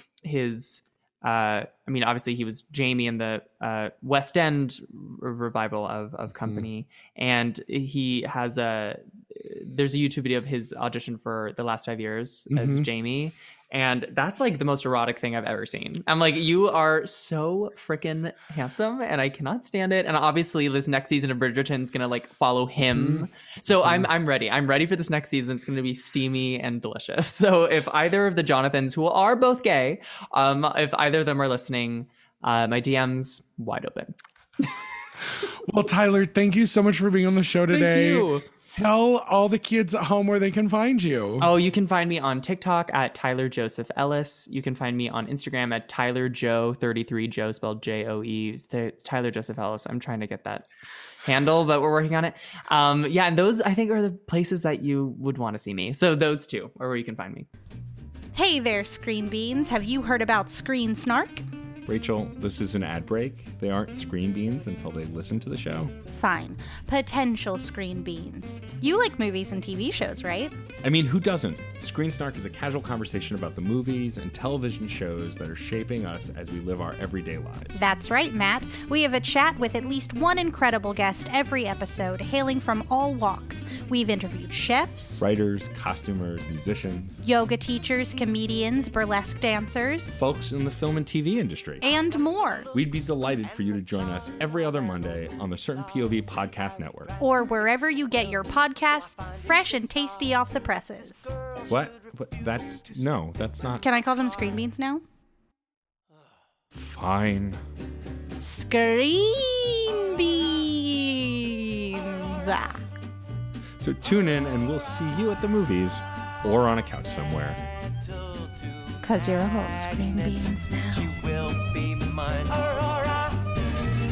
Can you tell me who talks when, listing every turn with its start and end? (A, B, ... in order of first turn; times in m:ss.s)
0:00.2-0:34.8 A
0:06.3-0:06.6 B
0:12.5-0:12.9 B
0:22.9-0:23.2 B
0:35.5-0:41.5 B
0:37.7-0:38.4 A
0:41.4-0:50.7 A
0:51.2-0:57.5 A
0:58.3-1:01.4 C
1:01.8-1:05.9 D
1:06.1-1:10.5 C
1:10.8-1:17.8 D
1:17.7-1:25.2 C
1:25.2-1:27.2 D
1:27.2-1:30.2 C
1:30.2-1:31.8 D
1:31.8-1:32.7 C
1:32.7-1:37.1 D
1:37.2-1:41.3 C
1:41.7-1:43.8 D
1:43.8-1:45.0 C
1:46.7-1:47.6 D
1:48.4-1:52.8 C
1:53.8-1:57.6 D
1:59.0-2:01.5 C